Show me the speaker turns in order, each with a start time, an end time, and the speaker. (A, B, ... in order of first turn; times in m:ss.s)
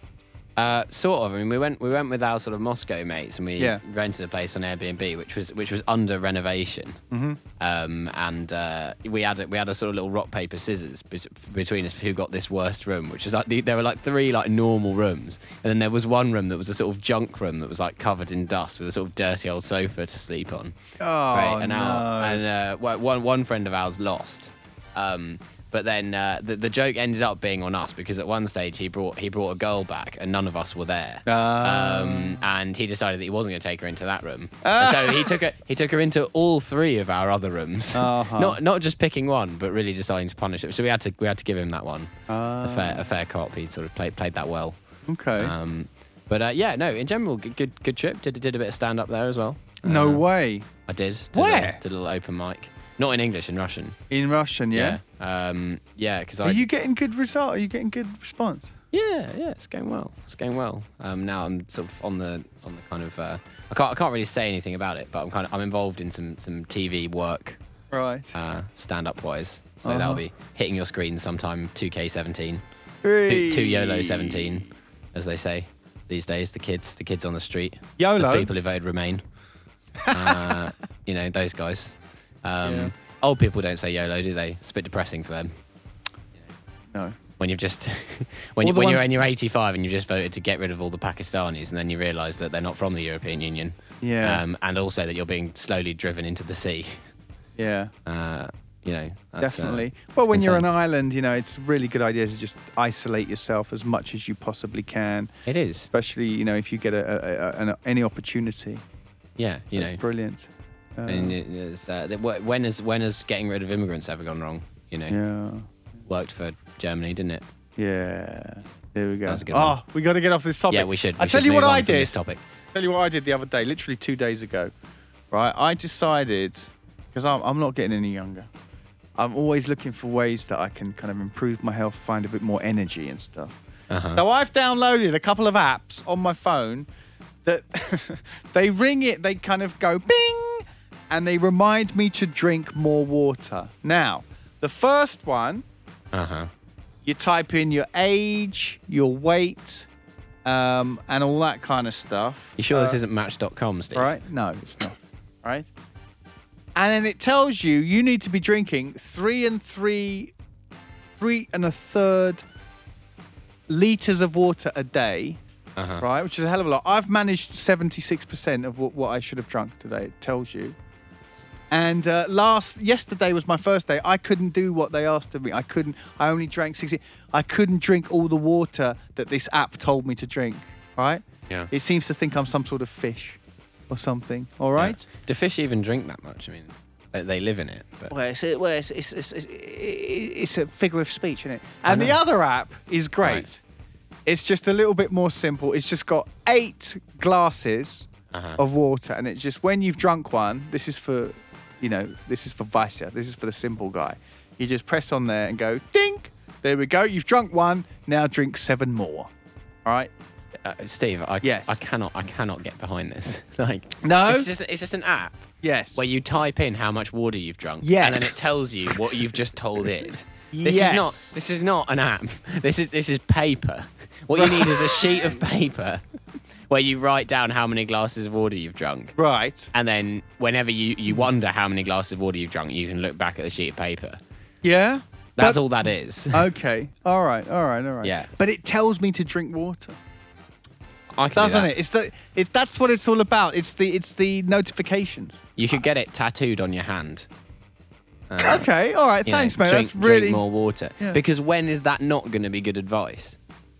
0:00.6-0:07.0 A
0:03.6-0:03.8 B
0:07.1-0:07.4 B
0:07.6-0:20.8 A
0:21.0-0:22.4 B
0:21.3-0:44.8 A
0:31.3-0:32.5 B
0:34.6-0:35.4 B
0:37.9-0:38.6 B
0:42.3-0:43.1 B
0:45.1-0:45.5 B
0:45.4-0:50.3 A
0:49.8-0:50.7 B
0:50.9-0:54.0 A
0:51.3-0:51.8 B
0:54.1-0:55.0 B
0:54.7-0:56.7 A
0:56.4-0:58.7 B
0:58.9-1:07.6 A
1:07.9-1:08.3 B
1:08.3-1:12.6 A
1:09.8-1:10.2 B
1:13.0-1:14.7 B
1:13.3-1:19.2 A
1:18.0-1:18.5 B
1:20.0-1:20.5 B
1:20.1-1:25.5 A
1:22.6-1:22.9 B
1:27.4-1:37.0 A
1:28.6-1:29.3 B
1:34.0-1:34.4 B
1:37.6-1:37.9 B
1:38.1-1:40.7 A
1:39.4-1:45.3 B
1:45.5-1:45.9 A
1:45.9-1:48.8 B
1:49.4-1:50.0 A
1:49.8-1:51.4 B
1:51.1-1:55.2 A
1:55.1-1:55.7 B
1:56.1-1:57.4 A
1:57.8-2:02.2 B
1:59.3-1:59.8 A
2:00.7-2:02.4 A
2:02.7-2:04.7 B
2:05.3-2:08.5 B
2:09.2-2:13.6 B
2:13.9-2:14.2 A
2:14.1-2:16.9 B
2:17.4-2:25.6 B
2:26.1-2:26.5 A
2:27.0-2:29.9 B
2:30.4-2:33.0 B
2:32.6-2:34.1 A
2:33.9-2:35.7 B
2:36.8-2:40.3 B
2:41.2-2:42.4 B
2:43.7-2:45.4 B
2:45.8-2:46.0 A
2:46.0-2:50.8 B
2:51.7-3:05.1 B
3:04.8-3:08.1 A
3:08.1-3:13.6 B
3:11.8-3:12.2 A
3:14.3-3:29.3 B
3:18.3-3:18.6 A
3:29.8-3:30.1 B
3:30.6-3:46.0 A
3:31.4-3:31.8 B
3:34.0-3:34.5 B
3:35.6-3:36.0 B
3:37.8-3:38.4 B
3:40.5-3:41.4 B
3:44.3-3:45.2 B
3:46.7-3:49.2 A
3:49.2-3:49.7 B
3:49.7-3:54.2 A
3:54.6-4:00.0 B
3:55.4-3:56.5 A
3:58.0-3:58.3 A
4:01.2-4:01.7 A
4:01.3-4:05.4 B
4:05.6-4:07.3 A
4:08.3-4:08.7 A
4:08.4-4:10.5 B
4:09.2-4:13.4 A